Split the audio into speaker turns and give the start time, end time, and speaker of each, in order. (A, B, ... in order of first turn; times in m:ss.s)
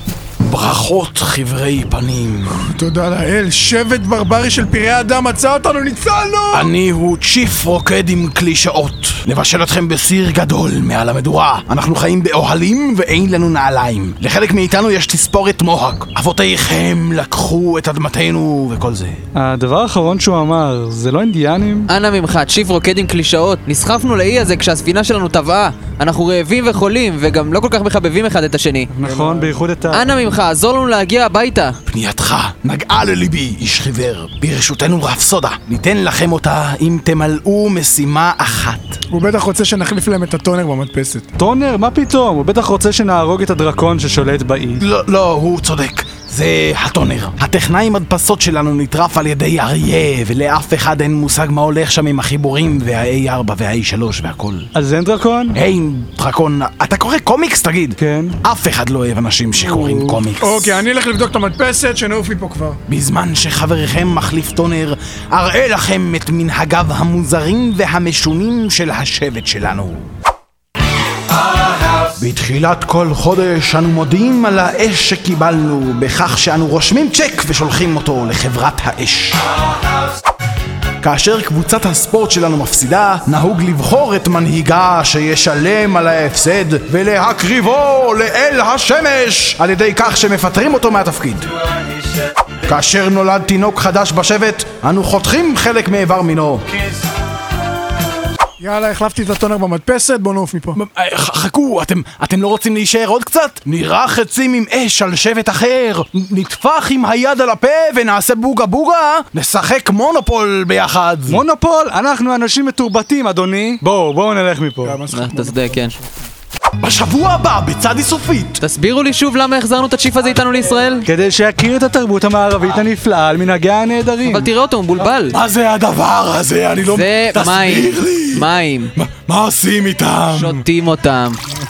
0:00.4-0:02.6 A
0:02.5-0:06.7 B
0:06.5-0:19.2 A
0:19.3-0:21.9 C
0:21.9-0:28.9 D
0:28.9-0:30.0 C
0:29.0-0:29.5 B
0:29.9-0:31.8 D
0:31.9-0:39.0 A
0:39.1-0:41.3 B
0:41.4-0:44.8 C
0:44.8-0:54.7 A
0:54.7-0:55.6 C
0:55.5-1:00.8 A
0:58.0-0:58.4 C
0:59.6-1:00.2 C
1:00.4-1:02.8 B
1:02.9-1:10.1 A
1:12.0-1:19.4 A
1:21.0-1:31.5 A
1:32.6-1:36.6 A
1:38.6-1:40.8 B
1:40.8-1:51.4 A
1:51.3-1:55.0 C
1:54.8-1:56.2 B
1:55.1-1:55.9 D
1:56.8-1:58.6 A
1:58.6-2:01.1 D
2:01.0-2:04.5 C
2:04.2-2:05.4 D
2:05.0-2:10.6 A
2:06.8-2:08.9 D
2:10.3-2:11.4 D